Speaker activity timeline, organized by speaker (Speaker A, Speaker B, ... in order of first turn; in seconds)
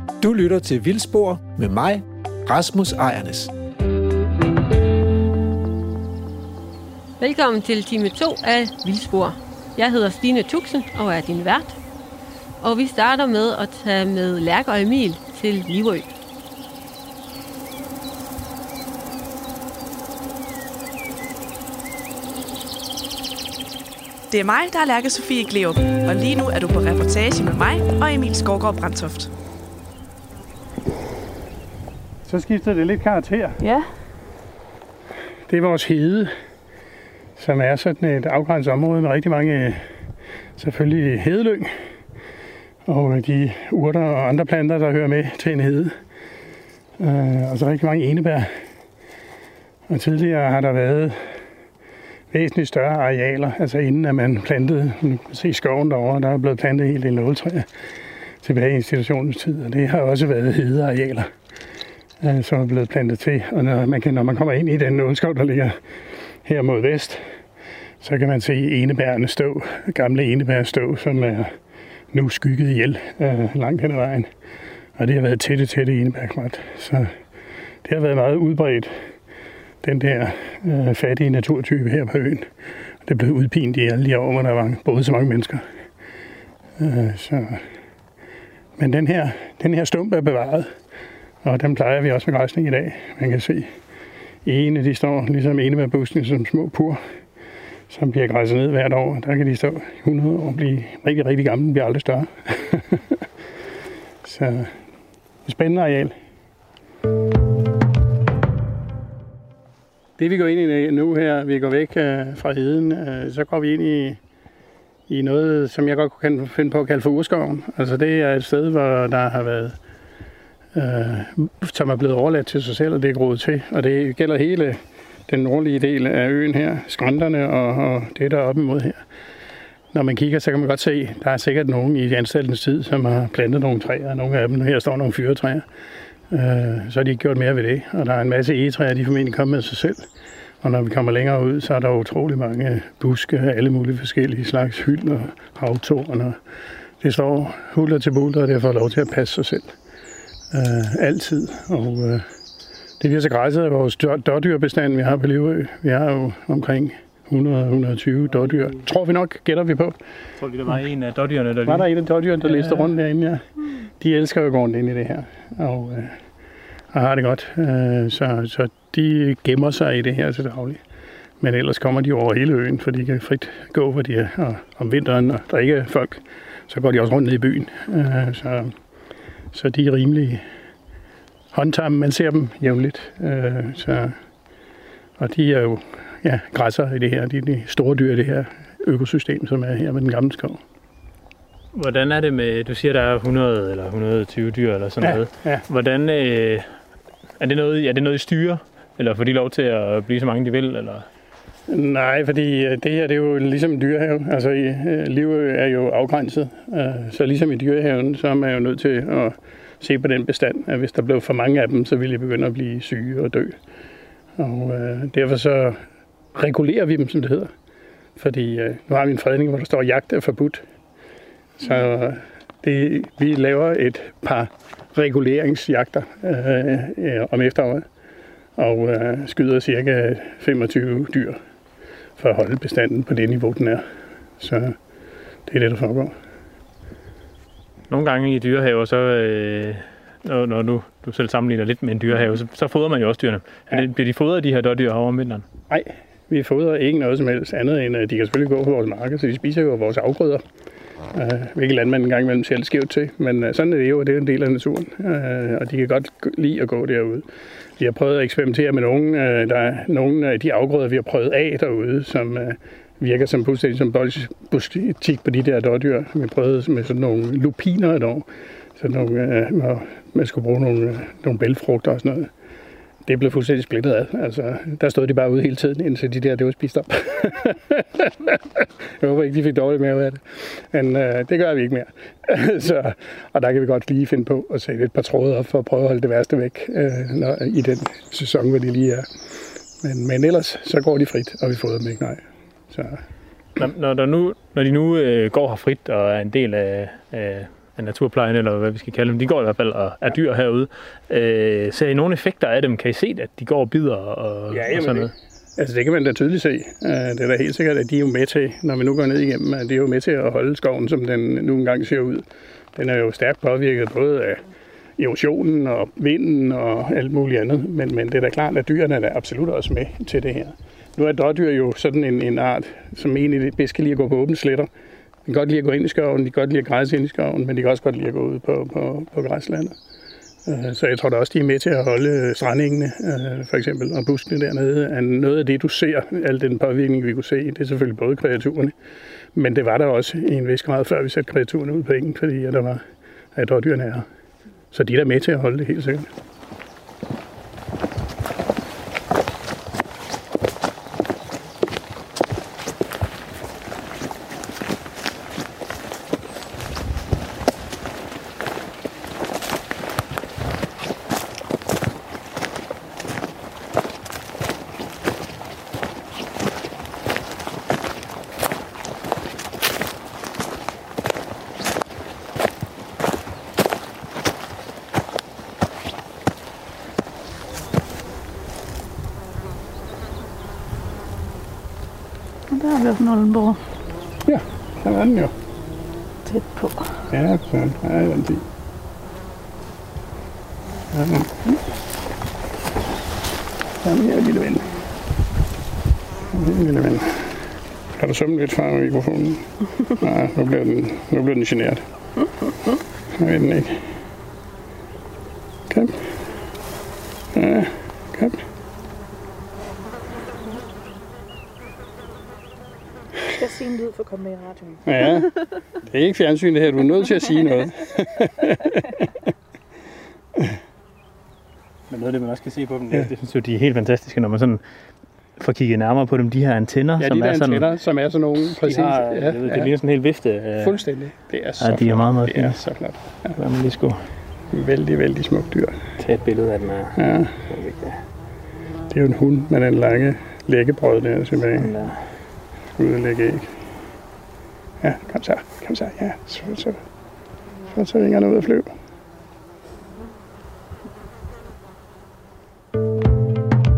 Speaker A: 0.2-3.5
Speaker B: 7.2-11.8, 12.6-16.1
Speaker C: 24.3-29.3
Speaker D: 32.2-33.6, 35.5-36.3, 37.4-39.9, 40.6-41.8, 42.9-46.0, 47.0-48.6, 49.9-51.4, 52.3-57.7, 58.4-61.3, 62.2-67.4, 68.0-71.6, 72.1-74.3, 75.0-77.2, 77.8-79.1, 79.8-82.5, 83.0-85.7, 86.8-87.7, 88.8-90.8, 91.4-93.7, 94.5-97.0, 97.9-103.3, 104.2-104.8, 105.5-106.2, 110.2-114.2, 115.1-119.8, 120.7-129.0, 129.9-135.7, 136.3-140.1, 140.6-146.4, 147.0-149.8, 150.5-152.3, 153.0-160.0, 161.7-166.2, 166.9-170.8, 171.4-178.8, 179.5-180.4, 181.5-184.2, 185.2-190.6, 195.0-195.6, 201.7-213.6, 214.4-217.5, 218.2-220.6, 221.6-227.9, 228.6-231.4, 232.2-233.8, 234.4-234.8, 235.5-236.2, 245.7-250.4, 251.1-272.3, 273.1-289.1, 289.8-293.0, 304.5-314.4, 315.0-324.7, 325.3-329.8, 330.4-338.7, 339.4-344.1, 344.7-346.1, 384.2-385.3, 387.1-388.4, 390.9-391.6, 393.8-394.8, 396.3-401.9, 403.1-404.0, 405.7-406.2, 407.3-408.4, 414.9-419.1, 427.0-429.7, 430.6-433.4, 434.5-435.9, 437.0-437.4, 438.9-441.9, 442.8-443.6, 444.8-446.8, 447.7-448.7
Speaker E: 33.6-33.9, 382.5-383.6, 386.3-386.9, 413.4-415.1
Speaker F: 160.4-161.9, 162.4-162.9, 191.7-196.7, 197.4-201.1, 237.9-245.4, 293.6-305.1, 421.9-424.6, 425.4-427.6, 428.6-430.8, 431.6-432.6, 433.4-434.1, 436.0-438.0, 441.6-442.0